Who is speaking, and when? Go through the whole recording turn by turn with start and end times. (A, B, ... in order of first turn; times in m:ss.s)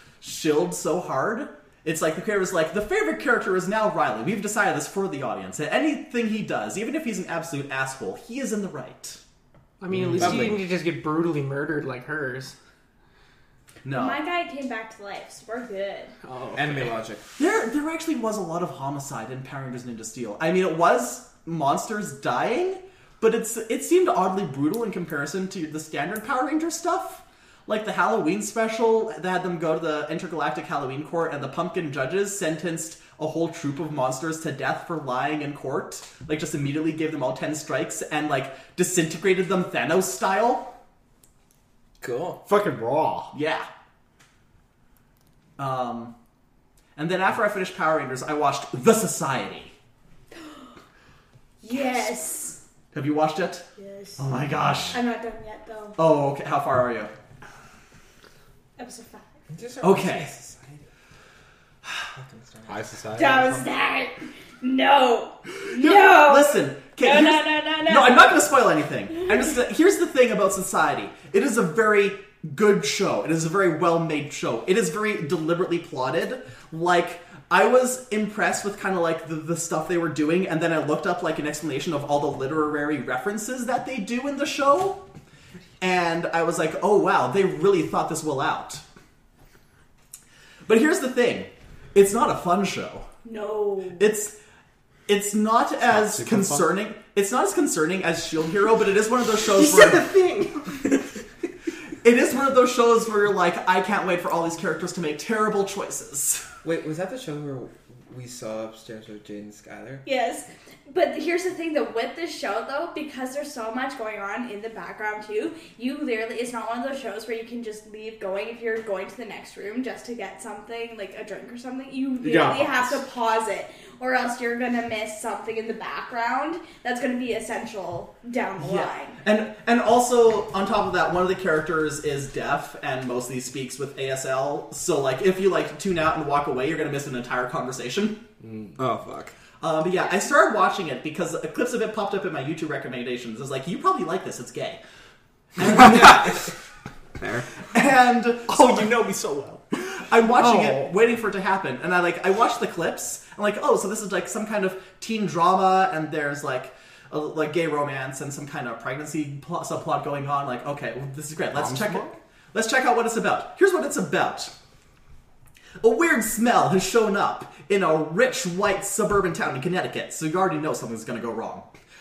0:00.2-0:09.2 A
0:09.8-0:12.5 B
0:10.0-0:10.6 C
0:13.8-0:14.2 A
0:13.9-0:16.1 D
0:16.2-0:16.9 B
0:16.5-0:17.2 C
0:17.4-0:40.7 A
0:42.0-0:42.4 C
0:42.4-0:43.3 E
0:43.3-0:43.7 A
0:45.6-0:46.1 A
0:47.0-0:49.7 A
0:51.6-0:52.6 D
0:52.9-0:53.6 A
0:53.8-0:54.2 D
0:54.2-0:55.0 A
0:54.9-0:56.0 D
0:56.0-0:57.1 A
0:58.8-0:59.3 D
0:59.5-1:00.8 C
0:59.8-1:00.3 A
1:02.0-1:02.9 C
1:02.7-1:03.6 E
1:03.1-1:08.4 D
1:05.7-1:25.0 A
1:25.8-1:28.8 A
1:30.7-1:33.1 A
1:33.2-1:34.1 D
1:34.0-1:34.3 A
1:35.1-1:40.1 A
1:35.9-1:36.7 E
1:39.4-1:40.8 B
1:42.0-1:46.4 A
1:46.6-1:50.0 C
1:50.0-2:09.2 D
2:02.2-2:03.0 E
2:08.6-2:18.2 A
2:18.4-2:18.7 E
2:18.8-2:19.3 C
2:19.6-2:24.8 A
2:25.6-2:26.5 A
2:25.6-2:26.4 C
2:27.2-2:27.5 C
2:27.7-2:28.9 A
2:28.5-2:29.6 E
2:30.0-2:44.5 A
2:30.4-2:30.9 B
2:41.5-2:42.1 E
2:45.8-2:51.7 A